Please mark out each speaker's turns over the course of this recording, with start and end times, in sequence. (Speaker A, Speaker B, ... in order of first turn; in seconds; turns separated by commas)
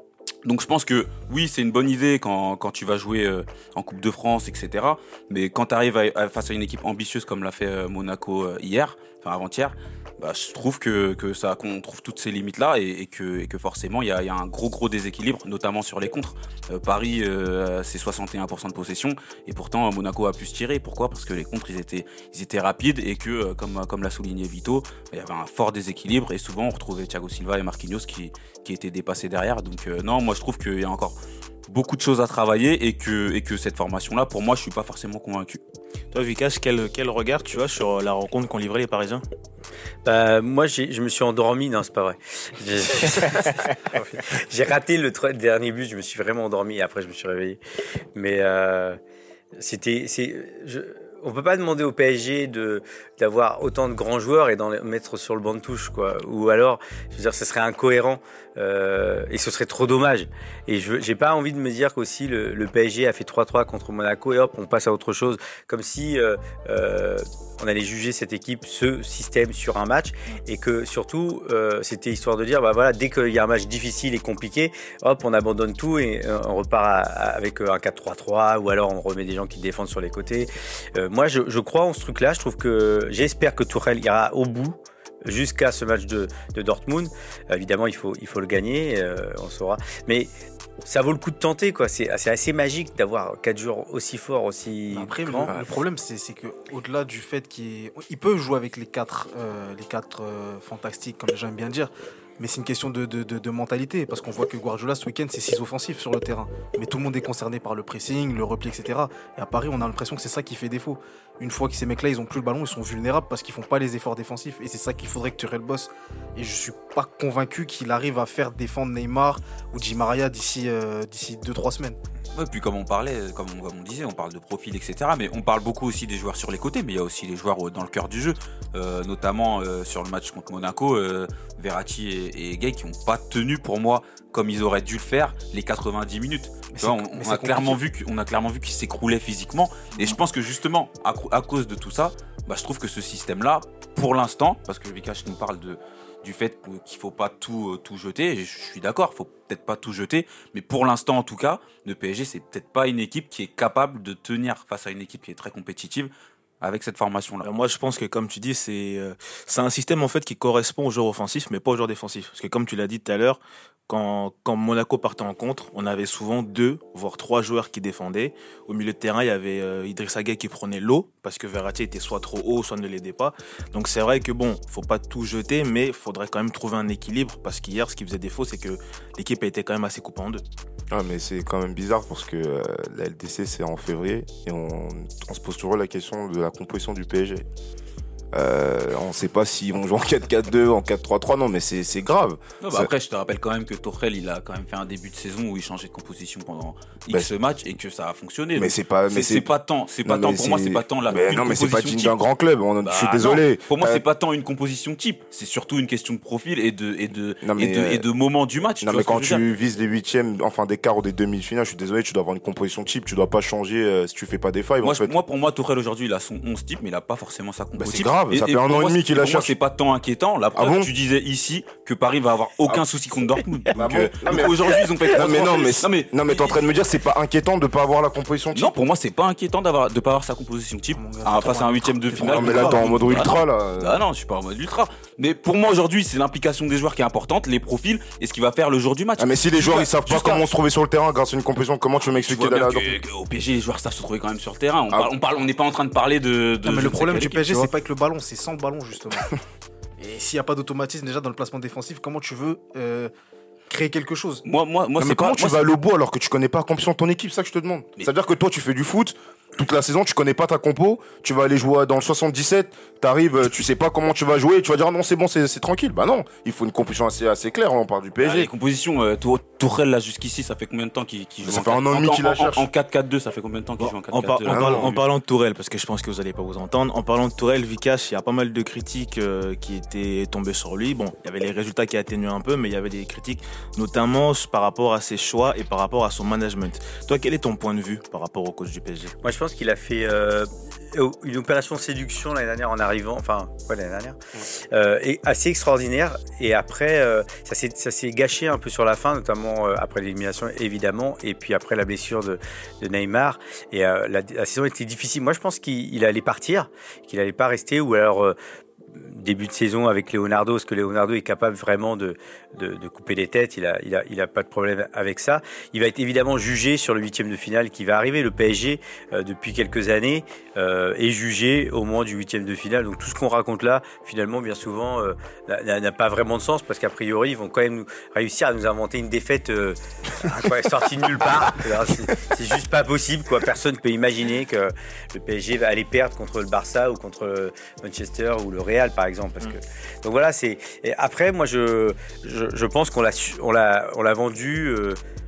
Speaker A: 0.5-31.2, Speaker A: 31.7-35.6, Speaker B: 36.1-39.2, Speaker C: 40.0-47.6, Speaker C: 48.1-49.0, Speaker C: 49.5-90.3, Speaker C: 90.8-95.5, Speaker D: 94.9-122.0, Speaker A: 122.3-157.5, Speaker D: 136.7-137.8, Speaker B: 157.4-180.4, Speaker E: 180.9-187.5, Speaker E: 188.3-192.9, Speaker A: 192.6-202.2, Speaker E: 198.6-199.5, Speaker E: 200.1-204.0, Speaker A: 202.8-209.4, Speaker E: 207.4-208.1, Speaker E: 208.8-215.2, Speaker A: 214.8-226.6, Speaker E: 217.8-219.5, Speaker E: 220.6-220.9, Speaker E: 223.7-228.8, Speaker A: 228.5-240.4, Speaker D: 230.9-233.3, Speaker E: 232.2-234.0, Speaker E: 239.2-243.0, Speaker D: 239.6-240.3, Speaker A: 242.1-247.7, Speaker D: 246.6-249.4, Speaker D: 250.0-253.1, Speaker D: 253.7-254.4, Speaker A: 254.4-255.7, Speaker E: 255.0-268.5, Speaker A: 268.2-275.0, Speaker E: 271.4-272.7, Speaker B: 273.8-289.1, Speaker E: 274.5-274.9, Speaker C: 289.2-308.4, Speaker C: 308.9-345.0